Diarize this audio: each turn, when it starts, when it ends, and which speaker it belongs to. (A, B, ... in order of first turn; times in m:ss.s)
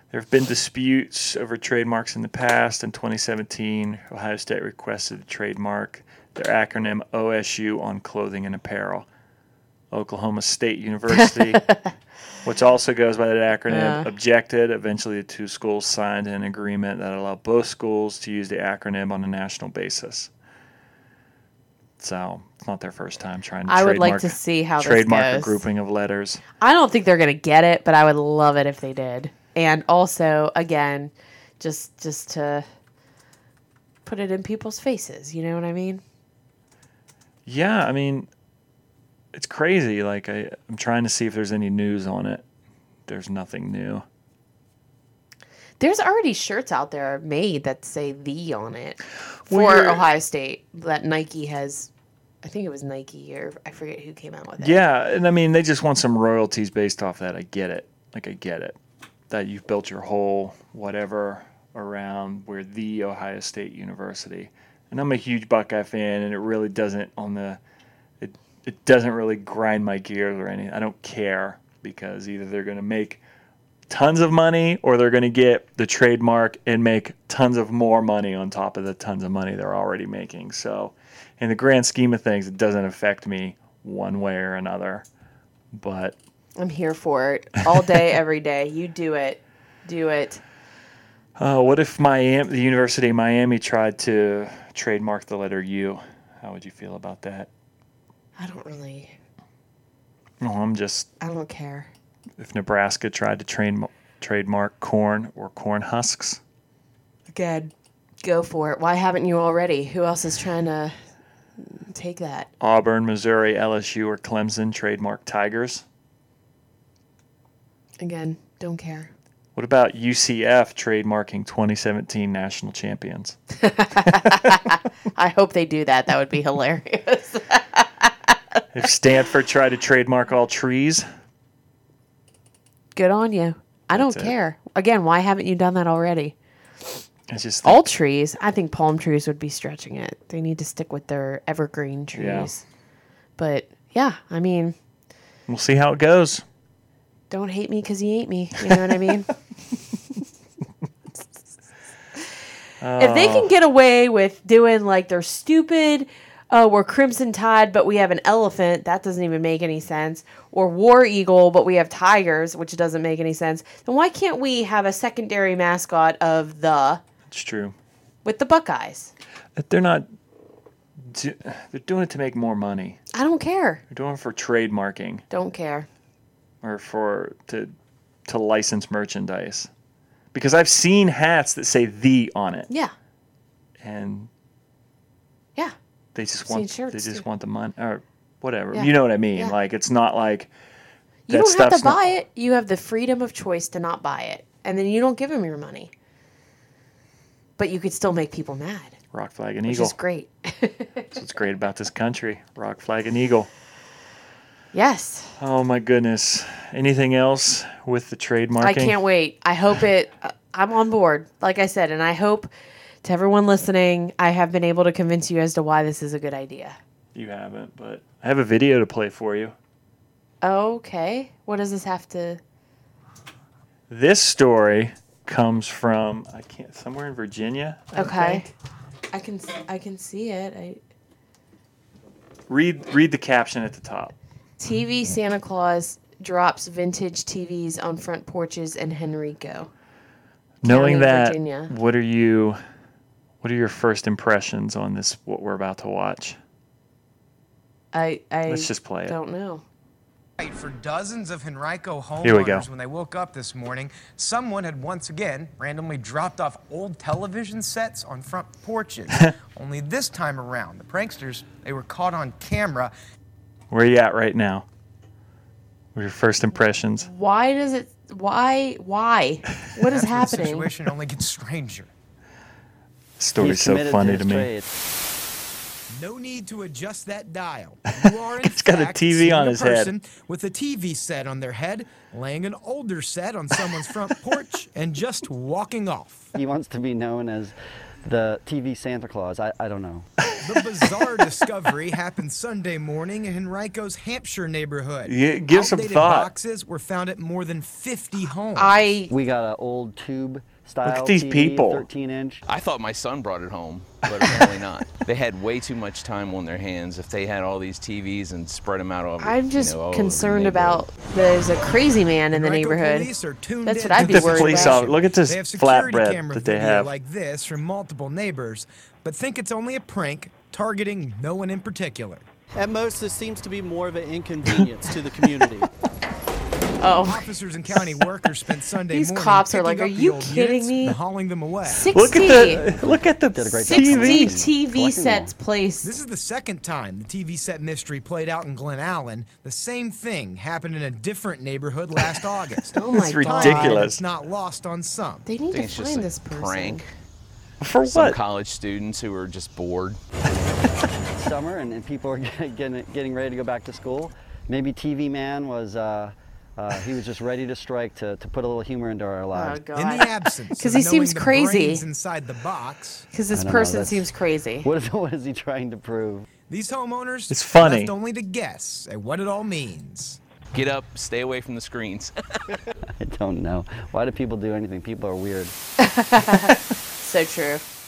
0:00.1-0:09.1 A
0:09.9-0:11.6 A
0:11.1-0:11.9 B
0:12.4-0:20.3 A
0:13.7-0:14.1 B
0:22.0-0:26.4 A
0:23.7-0:25.6 B
0:26.6-0:32.6 B
0:34.0-0:36.0 B
0:37.4-0:38.3 A
0:39.3-0:42.4 A
0:43.0-0:44.0 A
0:45.8-0:51.9 B
0:49.4-0:50.0 A
0:52.4-0:54.8 B
0:54.6-0:58.8 A
0:59.3-1:07.6 A
1:08.2-1:13.2 A
1:13.9-1:25.0 A
1:25.7-1:26.2 A
1:26.6-1:30.4 B
1:31.4-1:37.5 A
1:38.4-1:39.1 B
1:40.4-1:41.1 A
1:41.2-1:41.9 B
1:42.4-1:46.4 A
1:47.3-1:47.7 B
1:48.2-1:51.0 B
1:51.6-1:52.5 B
1:52.6-1:55.8 A
1:58.0-1:59.1 B
1:59.5-2:03.4 A
2:03.6-2:08.6 B
2:08.7-2:11.0 A
2:12.9-2:16.3 B
2:13.9-2:14.3 A
2:17.3-2:17.8 A
2:17.6-2:22.6 B
2:22.1-2:22.5 A
2:23.4-2:24.8 B
2:25.5-2:26.4 A
2:27.3-2:29.3 B
2:28.6-2:29.2 A
2:32.8-2:33.5 A
2:33.0-2:47.0 B
2:47.3-2:47.8 A
2:48.2-2:49.1 B
2:49.5-2:50.0 A
2:51.0-2:53.0 A
2:53.1-2:53.8 B
2:53.9-2:55.2 A
2:55.3-2:55.9 B
2:56.6-2:57.7 A
2:58.2-2:59.7 A
3:00.3-3:02.7 A
3:03.8-3:04.3 A
3:06.1-3:10.5 A
3:06.4-3:07.2 B
3:08.7-3:09.5 B
3:11.3-3:15.9 B
3:11.3-3:12.0 A
3:17.6-3:18.9 B
3:19.1-3:19.9 A
3:19.7-3:21.1 B
3:21.1-3:23.5 A
3:24.7-3:25.4 B
3:25.4-3:29.0 A
3:28.6-3:32.5 B
3:33.0-3:36.8 B
3:37.1-3:39.5 A
3:40.4-3:42.4 B
3:43.9-3:48.5 A
3:48.0-3:48.5 B
3:49.1-3:50.8 B
3:52.5-3:54.1 A
3:54.6-3:59.7 B
4:00.6-4:02.6 A
4:00.6-4:01.7 B
4:03.4-4:06.4 A
4:07.9-4:09.6 B
4:08.5-4:09.2 A
4:10.4-4:22.9 C
4:12.2-4:12.7 A
4:23.7-4:24.6 A
4:25.9-4:27.1 A
4:27.0-4:30.7 B
4:29.8-4:31.9 C
4:33.2-4:34.5 A
4:33.4-4:34.7 D
4:35.9-4:46.3 C
4:38.1-4:39.9 A
4:46.3-4:50.1 D
4:50.3-4:51.2 A
4:50.4-4:58.8 C
4:55.0-4:56.3 A
4:58.6-4:59.1 B
4:59.1-5:02.4 D
5:00.8-5:01.8 A
5:02.5-5:10.8 E
5:04.1-5:04.5 A
5:09.2-5:13.1 B
5:12.3-5:22.2 C
5:13.6-5:14.8 B
5:13.9-5:16.9 A
5:22.6-5:25.7 F
5:26.8-5:27.2 B
5:27.0-5:31.9 C
5:28.9-5:31.0 B
5:31.6-5:32.6 B
5:31.9-5:34.4 A
5:32.6-5:35.3 D
5:33.6-5:35.9 B
5:35.8-5:45.3 C
5:42.7-5:43.8 B
5:42.9-5:44.0 A
5:45.2-5:46.8 B
5:45.5-5:46.8 E
5:47.6-5:48.2 A
5:47.8-5:50.0 E
5:50.3-5:59.6 D
5:59.3-6:01.8 B
5:59.7-6:03.1 C
6:03.1-6:04.7 B
6:03.3-6:04.0 D
6:04.6-6:06.2 D
6:06.5-6:10.2 C
6:07.3-6:07.9 A
6:10.5-6:12.1 E
6:13.0-6:15.5 D
6:15.8-6:17.6 B